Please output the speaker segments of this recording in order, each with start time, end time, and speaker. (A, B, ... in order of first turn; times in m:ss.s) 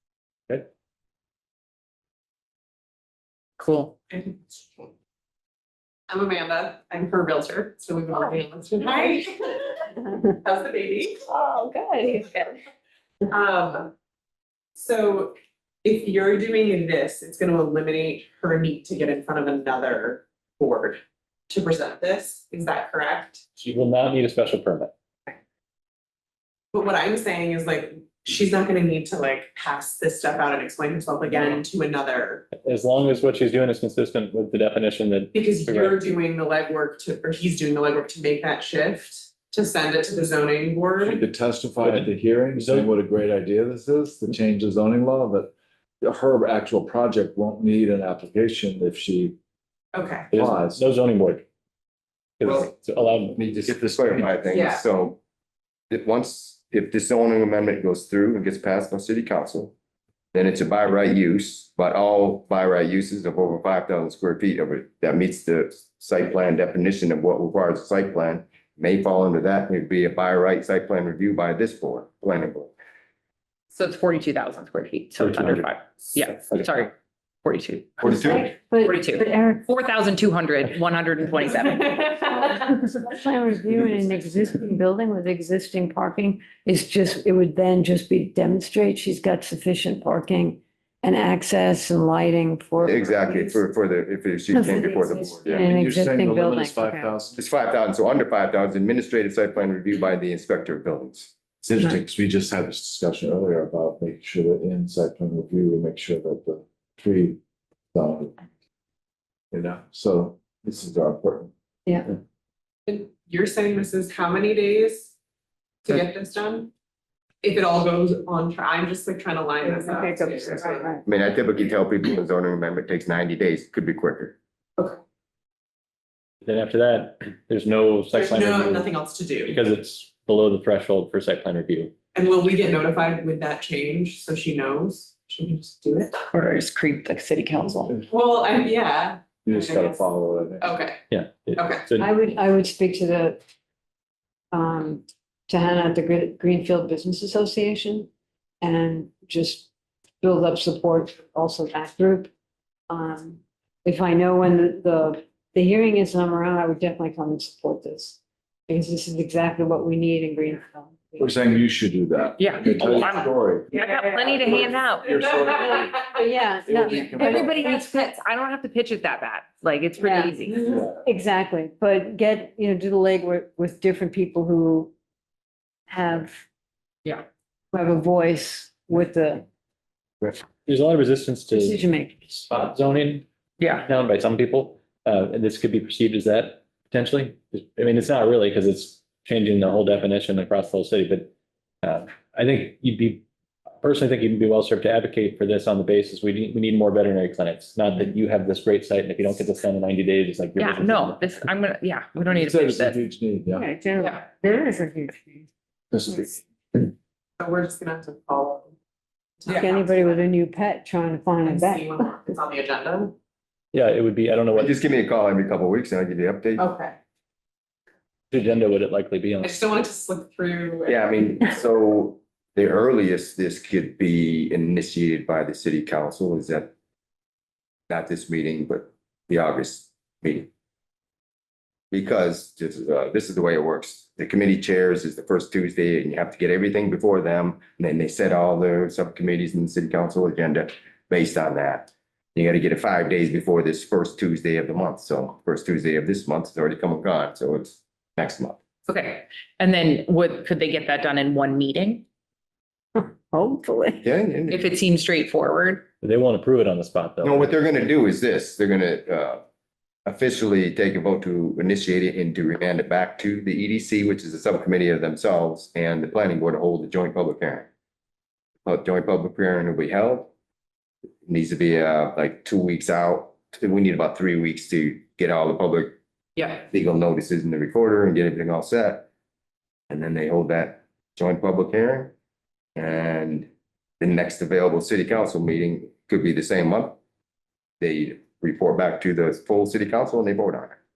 0:03.6-0:04.0 A
0:04.1-0:04.8 B
0:06.1-0:11.2 B
0:08.1-0:09.2 A
0:11.3-0:12.5 A
0:13.3-0:13.9 B
0:14.8-0:23.4 B
0:23.6-0:24.9 C
0:26.7-0:32.5 B
0:32.5-0:36.0 C
0:35.3-0:41.2 B
0:41.0-0:49.4 D
0:41.8-0:42.9 C
0:49.9-0:50.3 B
0:50.3-0:51.4 C
0:50.3-0:50.8 D
0:52.4-0:53.4 C
0:53.3-0:55.2 E
0:53.6-0:54.4 D
0:54.5-0:54.8 B
0:55.9-0:59.7 E
1:00.3-1:12.7 E
1:13.7-1:18.0 A
1:15.2-1:15.6 C
1:18.0-1:18.5 E
1:18.0-1:19.6 F
1:18.8-1:22.1 A
1:21.7-1:22.5 B
1:22.3-1:33.5 F
1:32.8-1:35.7 E
1:34.5-1:37.1 F
1:35.6-1:37.4 D
1:37.4-1:41.3 E
1:41.6-1:47.4 D
1:47.9-1:48.4 D
1:49.5-1:51.5 D
1:51.8-1:52.1 F
1:52.9-1:55.1 B
1:55.8-1:56.7 B
1:57.4-2:00.9 B
1:59.6-2:01.0 F
2:01.0-2:04.4 E
2:06.4-2:08.9 C
2:08.1-2:09.6 B
2:09.4-2:11.9 C
2:12.1-2:16.2 B
2:16.3-2:17.9 A
2:18.1-2:20.0 B
2:19.4-2:20.8 D
2:20.6-2:21.0 B
2:21.1-2:22.1 C
2:21.5-2:21.8 B
2:22.0-2:23.4 F
2:24.5-2:28.1 F
2:28.6-2:29.7 F
2:30.2-2:32.3 F
2:32.9-2:41.4 F
2:41.2-2:47.7 D
2:42.4-2:45.1 A
2:43.7-2:44.6 F
2:45.5-2:48.1 F
2:47.2-2:50.6 A
2:50.0-2:54.9 F
2:50.7-2:51.0 D
2:55.9-2:56.4 F
2:57.7-2:59.4 F
3:00.6-3:03.2 C
3:01.5-3:02.3 F
3:03.6-3:03.9 A
3:03.8-3:13.2 C
3:13.8-3:21.4 C
3:20.6-3:23.0 A
3:22.3-3:23.7 D
3:23.6-3:25.5 F
3:25.9-3:26.4 D
3:27.4-3:28.7 B
3:29.4-3:30.2 B
3:29.5-3:32.1 F
3:31.4-3:33.2 B
3:33.7-3:34.8 C
3:34.5-3:36.6 E
3:36.6-3:36.9 B
3:38.3-3:39.8 C
3:39.4-3:41.1 B
3:40.9-3:46.7 E
3:47.9-3:50.5 E
3:51.9-4:08.6 E
4:08.9-4:12.0 A
4:12.9-4:14.0 F
4:14.0-4:14.7 E
4:14.5-4:15.8 A
4:16.0-4:17.6 C
4:17.2-4:19.4 E
4:20.0-4:27.7 E
4:28.6-4:30.3 E
4:31.2-4:36.0 E
4:36.4-4:36.6 A
4:36.7-4:39.1 E
4:39.9-4:42.1 E
4:42.8-4:43.5 E
4:44.0-4:47.0 E
4:47.8-4:50.8 E